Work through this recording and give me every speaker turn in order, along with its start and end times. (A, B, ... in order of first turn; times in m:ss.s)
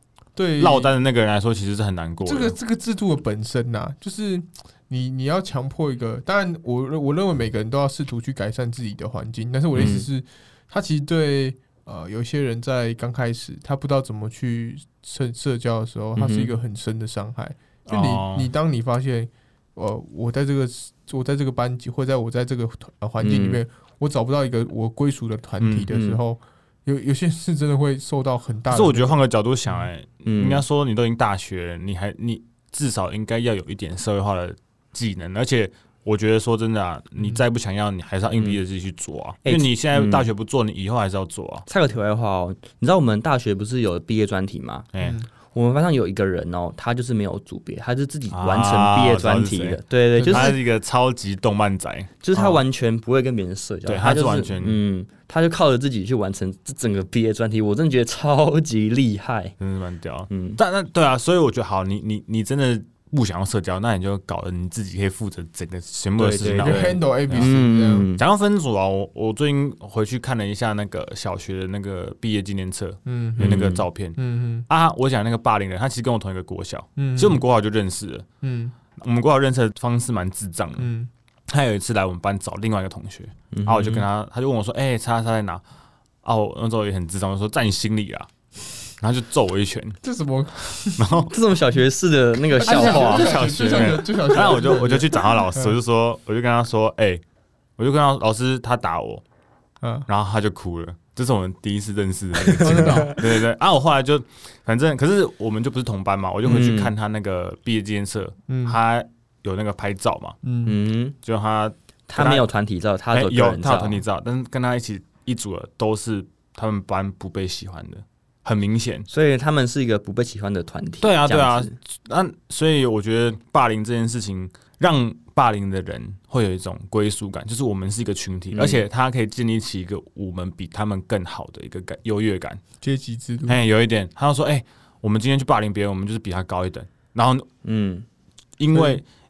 0:00.4-0:00.9 A
0:00.6-0:02.6 B
0:02.2-0:29.2 A
0:09.8-0:10.1 C
0:16.2-0:16.5 C
0:17.9-0:18.5 B
0:23.2-0:23.6 C
0:25.6-0:25.9 B
0:25.9-0:26.2 C
0:28.7-0:41.7 B
0:30.2-0:30.6 C
0:38.4-0:38.6 C
0:39.4-0:40.3 C
0:41.7-0:44.9 C
0:44.9-0:45.2 B
0:45.0-0:45.3 A
0:45.5-0:50.6 C
0:48.3-0:52.6 B
0:50.2-0:50.5 A
0:52.2-0:59.6 C
0:53.9-0:54.8 B
0:59.6-1:07.5 B
1:00.3-1:00.6 C
1:06.2-1:08.2 C
1:06.4-1:08.1 A
1:08.2-1:14.2 B
1:13.0-1:14.7 A
1:13.4-1:13.9 C
1:14.7-1:18.2 B
1:17.0-1:17.4 A
1:18.4-1:18.7 A
1:19.0-1:20.9 B
1:20.8-1:21.1 A
1:21.5-1:25.6 B
1:23.5-1:24.0 C
1:26.2-1:28.3 B
1:29.0-1:30.0 B
1:30.0-1:31.1 A
1:31.0-1:31.3 B
1:31.3-1:34.0 C
1:32.6-1:35.8 A
1:32.6-1:37.2 B
1:37.8-1:39.2 B
1:39.8-1:40.1 A
1:40.1-1:50.4 B
1:42.5-1:43.2 A
1:42.6-1:43.2 C
1:46.4-1:46.9 C
1:48.5-1:48.8 A
1:50.4-1:50.8 A
1:50.6-1:51.2 C
1:51.2-1:52.5 B
1:52.1-1:54.0 C
1:53.1-1:59.1 B
1:59.1-2:01.8 C
2:01.0-2:12.6 B
2:08.5-2:08.8 C
2:12.8-2:13.6 A
2:13.5-2:17.5 B
2:17.6-2:18.0 C
2:18.6-2:19.0 B
2:18.7-2:19.0 A